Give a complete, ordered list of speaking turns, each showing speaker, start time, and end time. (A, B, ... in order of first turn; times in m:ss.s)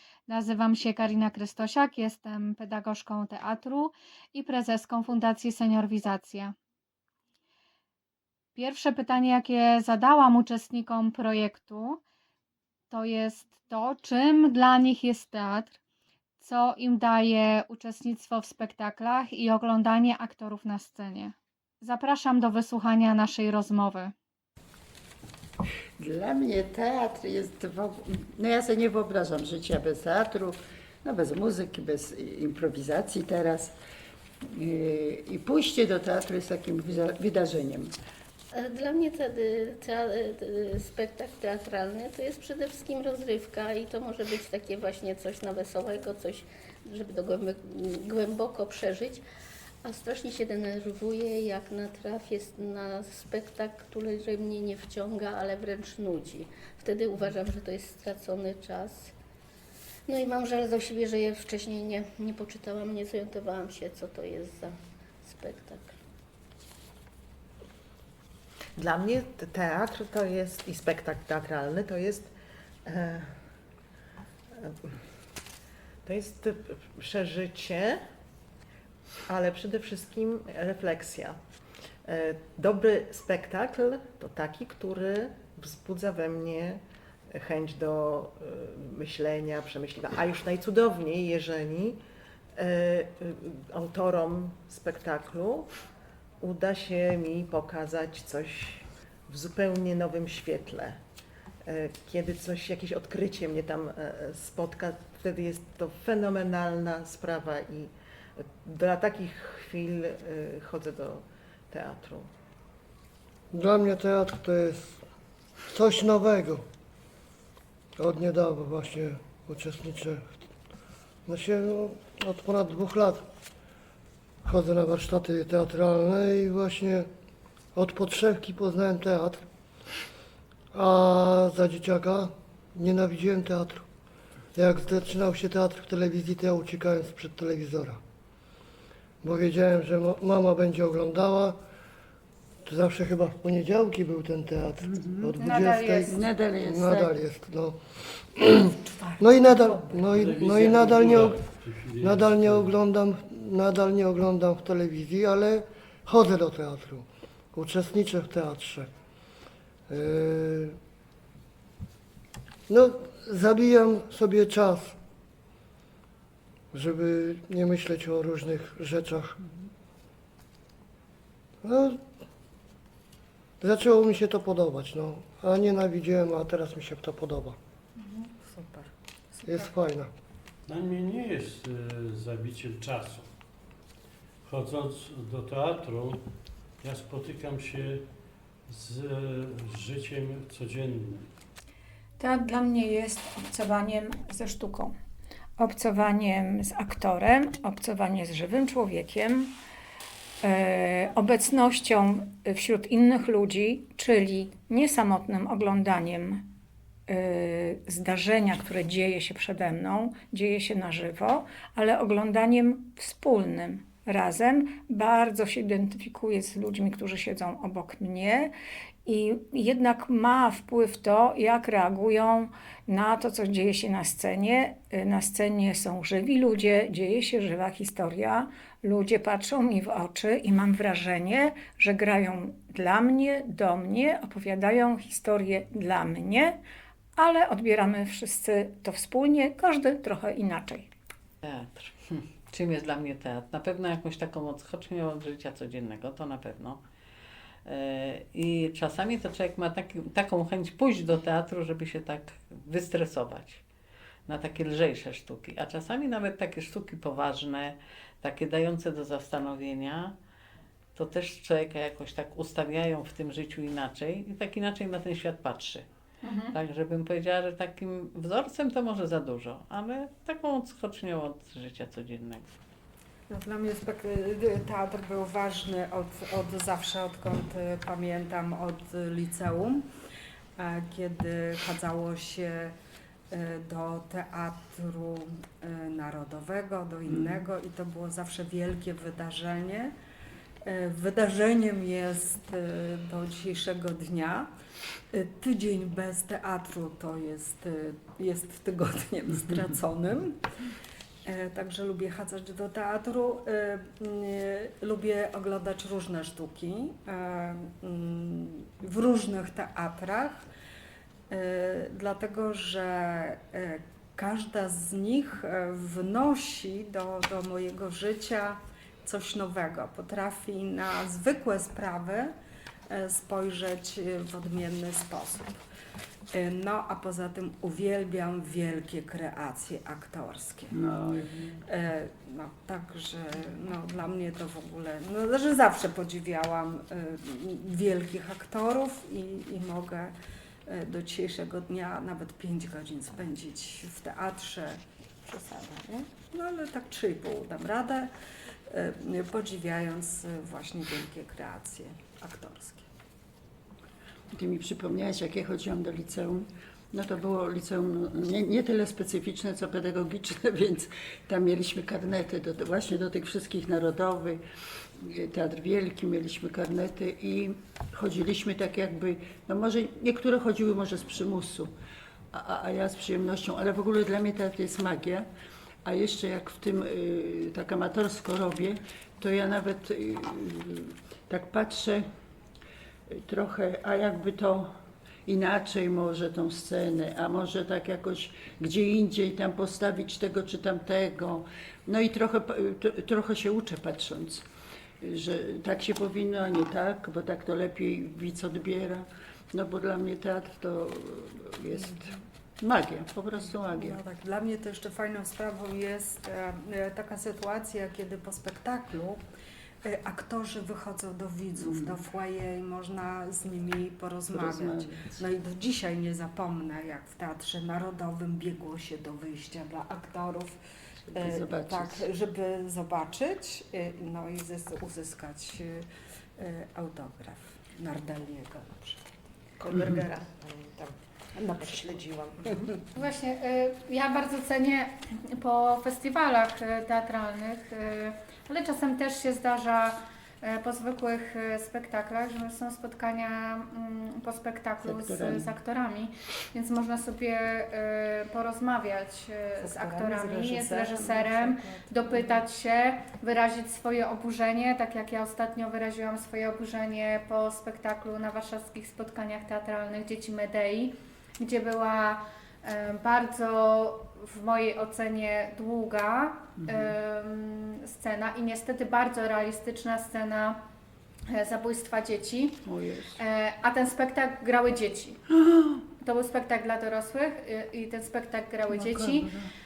0:00.3-0:06.6 A
0:08.5-0:12.0 A
0:12.9-0:15.8 A
0:16.4-0:24.1 A
0:26.0-0:33.7 B
0:34.5-0:37.9 B
0:38.5-0:49.2 C
0:49.8-0:59.1 C
1:00.1-1:05.9 C
1:08.8-1:12.3 D
1:12.9-1:13.3 D
1:14.6-1:14.9 D
1:16.0-1:18.0 D
1:19.3-1:21.4 D
1:22.0-1:26.8 D
1:27.3-1:32.0 D
1:32.6-1:35.7 D
1:36.4-1:41.0 D
1:41.6-1:52.3 D
1:53.5-1:55.0 E
1:55.7-1:56.6 E
1:58.0-2:00.3 E
2:01.3-2:03.2 E
2:04.4-2:07.1 E
2:07.7-2:09.4 E
2:10.7-2:13.8 E
2:14.6-2:18.0 E
2:19.2-2:21.6 E
2:22.6-2:31.4 E
2:25.4-2:26.3 A
2:26.1-2:27.2 B
2:30.0-2:32.8 F
2:32.0-2:38.9 E
2:39.9-2:40.8 E
2:42.7-2:45.0 E
2:46.7-2:49.4 E
2:51.6-2:52.0 E
2:53.6-2:57.6 E
2:58.4-2:59.6 G
2:59.4-3:00.1 E
3:00.7-3:03.3 F
3:04.4-3:06.2 F
3:06.8-3:08.1 F
3:08.7-3:11.3 F
3:12.2-3:14.9 H
3:15.6-3:19.6 H
3:20.4-3:26.5 H
3:27.1-3:38.5 H
3:39.1-3:56.6 H
3:57.2-4:00.9 H
4:01.4-4:06.8 I
4:07.7-4:13.6 I
4:14.3-4:20.2 I
4:21.0-4:25.8 I
4:26.2-4:26.5 A
4:26.5-4:32.4 I
4:33.3-4:39.8 G
4:40.6-4:42.7 G
4:43.3-4:49.9 G
4:47.1-4:47.5 B
4:50.6-4:54.5 G
4:55.1-5:00.4 G
5:01.2-5:10.5 G
5:11.3-5:22.3 G
5:22.9-5:25.6 G
5:26.3-5:30.8 G
5:30.7-5:31.6 B
5:31.7-5:40.1 G
5:40.7-5:48.1 G
5:48.7-5:52.8 G
5:54.3-6:04.4 B
6:05.0-6:11.7 B
6:12.3-6:15.3 B
6:15.8-6:22.0 B
6:23.1-6:24.7 B
6:25.3-6:34.4 B
6:35.0-6:44.0 B
6:43.7-6:49.2 G
6:49.8-7:00.6 G
6:51.6-6:52.1 B
6:54.3-6:55.3 B
7:01.1-7:02.1 B
7:01.2-7:05.9 G
7:06.4-7:09.1 G
7:09.6-7:11.0 D
7:11.4-7:12.8 G
7:11.6-7:12.7 D
7:12.9-7:50.6 A
7:24.8-7:25.5 B
7:29.6-7:32.4 G
7:46.6-7:46.9 B
7:51.3-7:52.6 A
7:52.7-7:53.2 B
7:53.2-7:55.2 A
7:55.4-7:55.8 B
7:56.0-7:59.3 A
7:58.7-7:59.5 B